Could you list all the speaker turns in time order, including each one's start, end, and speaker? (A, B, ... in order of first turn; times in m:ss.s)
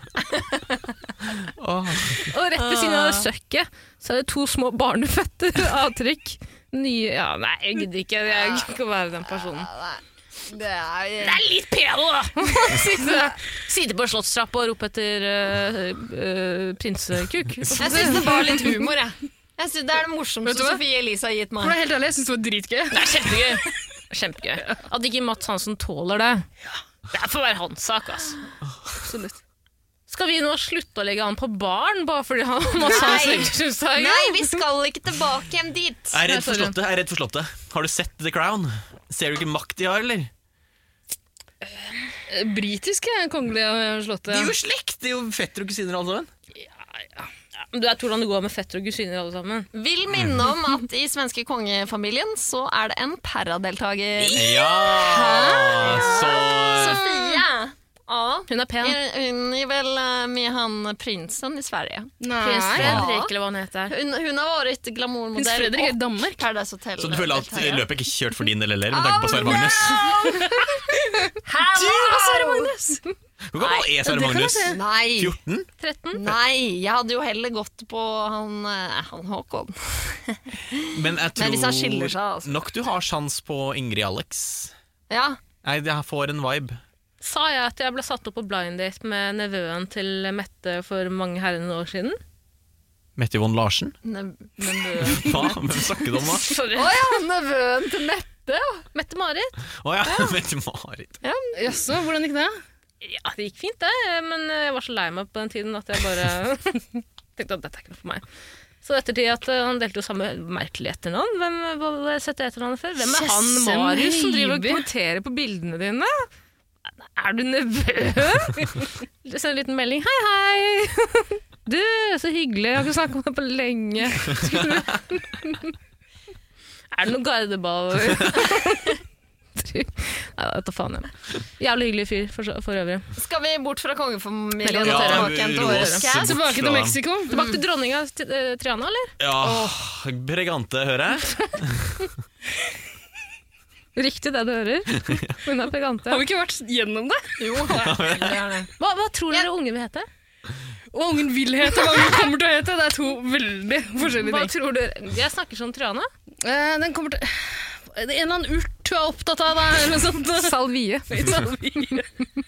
0:01.3-0:02.3 A
0:02.2-0:09.7 B
0:02.6-0:03.2 C
0:08.3-0:08.7 C
0:09.2-0:11.4 C
0:11.2-0:18.7 B
0:17.7-0:21.8 C
0:20.4-0:20.8 D
0:21.6-0:23.1 D
0:22.9-0:26.4 B
0:27.1-0:28.4 B
0:29.0-0:29.3 B
0:30.1-0:34.6 B
0:32.8-0:36.2 C
0:36.1-0:40.3 A
0:36.2-0:36.8 B
0:42.3-0:44.5 D
0:44.3-0:46.3 A
0:47.7-0:49.7 B
0:49.7-1:02.1 C
0:50.1-0:50.4 A
0:54.2-0:57.2 A
0:58.5-0:59.0 B
1:02.2-1:03.0 D
1:02.4-1:03.9 B
1:02.7-1:03.3 C
1:03.9-1:07.9 C
1:05.4-1:06.4 D
1:07.0-1:10.3 A
1:08.9-1:12.7 C
1:11.7-1:13.0 D
1:13.5-1:15.7 A
1:14.0-1:14.8 D
1:14.6-1:15.4 C
1:15.8-1:16.2 B
1:16.1-1:22.5 C
1:20.9-1:24.7 A
1:25.1-1:25.4 C
1:25.6-1:26.8 A
1:27.2-1:32.2 B
1:33.2-1:34.0 A
1:34.0-1:35.5 C
1:35.0-1:36.5 A
1:36.1-1:37.2 B
1:36.7-1:38.8 C
1:38.9-1:40.4 B
1:39.8-1:41.2 A
1:41.2-1:41.7 C
1:41.6-1:42.5 D
1:43.0-1:48.2 B
1:48.8-1:56.3 B
1:53.0-1:54.9 D
1:57.0-2:05.7 B
2:04.3-2:04.8 A
2:06.9-2:09.0 B
2:08.2-2:08.4 A
2:09.6-2:13.0 B
2:13.2-2:16.3 C
2:14.6-2:16.0 B
2:14.8-2:17.0 A
2:16.1-2:17.4 D
2:17.3-2:19.1 B
2:19.2-2:22.1 A
2:19.4-2:19.8 D
2:24.0-2:26.2 B
2:25.0-2:25.3 A
2:26.1-2:28.0 D
2:27.4-2:28.7 C
2:27.7-2:28.4 A
2:28.8-2:30.1 B
2:30.9-2:34.5 D
2:34.0-2:36.1 B
2:36.4-2:40.6 D
2:40.4-2:42.0 B
2:41.1-2:42.0 D